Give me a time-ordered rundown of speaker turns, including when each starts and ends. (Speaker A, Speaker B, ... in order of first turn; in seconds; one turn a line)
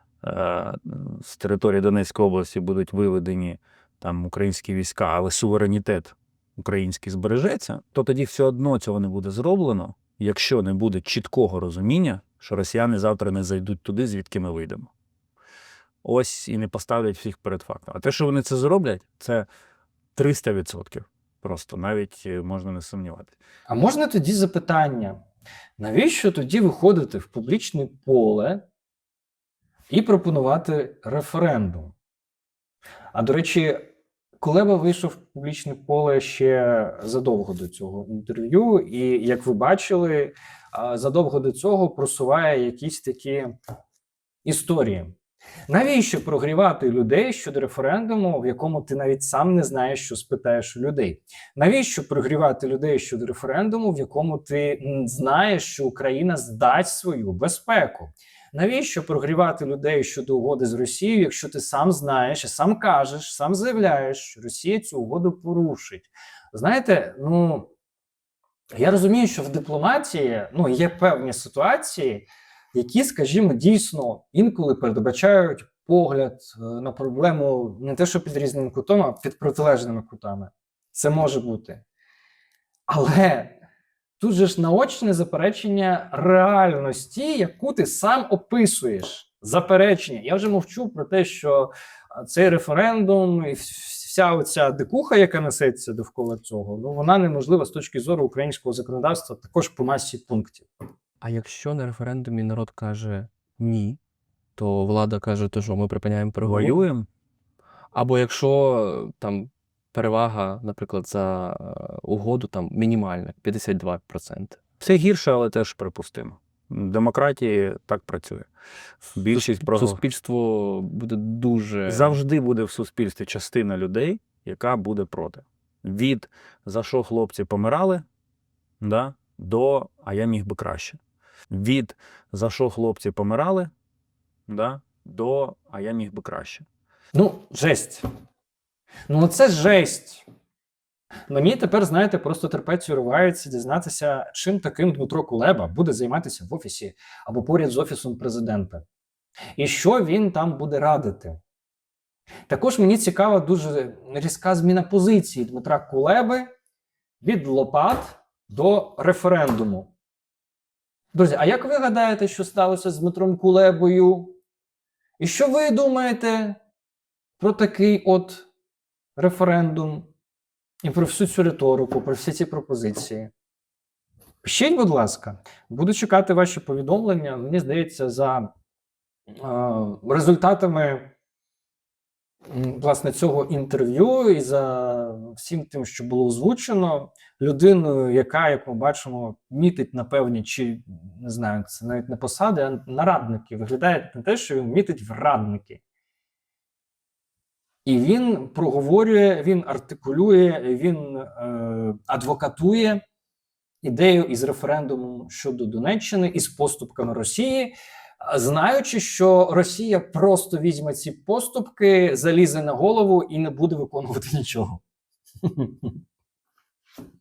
Speaker A: 0.2-14.9
Speaker A: 16.0-19.5
Speaker A: 20.1-23.4
Speaker B: 23.7-25.2
Speaker B: 25.8-28.6
Speaker B: 29.9-31.9
Speaker B: 33.1-43.5
Speaker B: 44.5-45.1
Speaker B: 45.7-67.7
Speaker B: 68.7-81.8
Speaker B: 82.9-83.6
Speaker B: 84.2-100.7
Speaker C: 101.2-104.0
Speaker C: 104.6-106.8
Speaker A: 106.4-107.1
Speaker C: 107.9-114.6
Speaker A: 114.8-118.5
Speaker A: 119.1-120.0
Speaker C: 119.3-122.2
Speaker A: 121.9-128.1
Speaker A: 128.8-131.0
Speaker A: 131.5-133.7
Speaker A: 134.5-136.7
Speaker B: 137.1-138.1
Speaker B: 139.1-140.2
Speaker B: 141.3-148.8
Speaker B: 149.6-151.4
Speaker B: 152.5-156.5
Speaker B: 157.2-159.9
Speaker B: 161.1-164.4
Speaker B: 165.2-166.6
Speaker B: 167.4-168.5
Speaker B: 169.2-170.1
Speaker B: 170.8-173.3
Speaker B: 174.4-178.5
Speaker B: 179.3-181.1
Speaker B: 182.5-195.8
Speaker B: 197.8-203.0
Speaker B: 203.8-214.8
Speaker B: 215.4-216.0